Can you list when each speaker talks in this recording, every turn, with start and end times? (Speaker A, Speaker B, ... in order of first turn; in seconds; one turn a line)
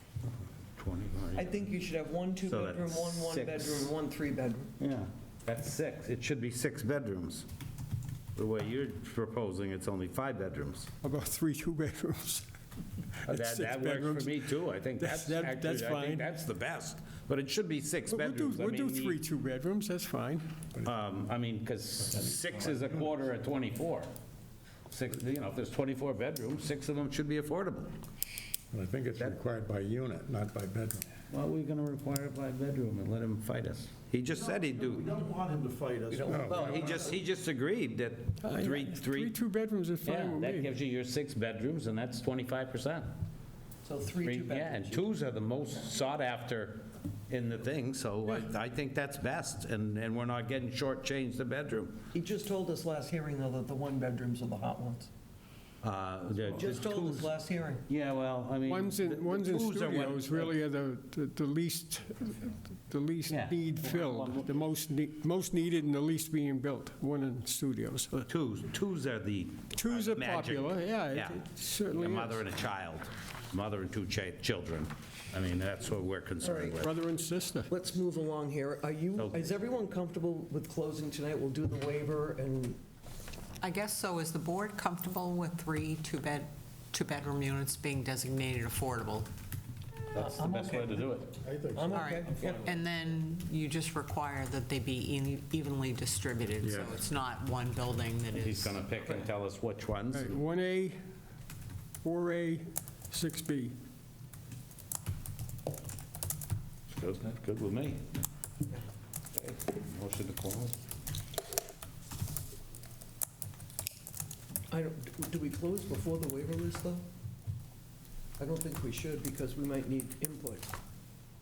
Speaker A: 0.8-1.8
Speaker B: 1.3-4.7
Speaker A: 2.4-3.9
Speaker A: 4.8-7.5
Speaker A: 8.3-10.9
Speaker C: 11.0-12.5
Speaker C: 13.2-16.3
Speaker A: 13.3-19.2
Speaker C: 18.1-20.5
Speaker A: 20.8-24.1
Speaker A: 24.9-27.9
Speaker D: 28.7-31.1
Speaker A: 31.3-35.1
Speaker E: 34.3-37.1
Speaker B: 36.1-36.9
Speaker D: 36.3-36.8
Speaker A: 36.4-39.4
Speaker C: 38.4-40.7
Speaker A: 40.0-43.1
Speaker B: 43.8-45.1
Speaker A: 44.2-52.0
Speaker B: 52.1-55.1
Speaker A: 55.8-60.5
Speaker B: 56.5-57.8
Speaker C: 58.6-68.3
Speaker A: 63.3-64.6
Speaker A: 68.3-76.9
Speaker C: 69.7-72.4
Speaker B: 76.4-76.8
Speaker C: 76.8-77.7
Speaker B: 77.7-82.8
Speaker A: 79.1-79.5
Speaker F: 83.6-89.3
Speaker A: 90.1-91.4
Speaker B: 90.1-91.2
Speaker E: 91.5-91.9
Speaker B: 91.7-92.7
Speaker F: 91.9-99.0
Speaker A: 96.6-97.0
Speaker A: 98.3-100.3
Speaker C: 100.1-101.0
Speaker C: 102.0-103.7
Speaker A: 106.9-108.0
Speaker A: 109.4-110.7
Speaker B: 114.7-117.0
Speaker B: 118.4-120.7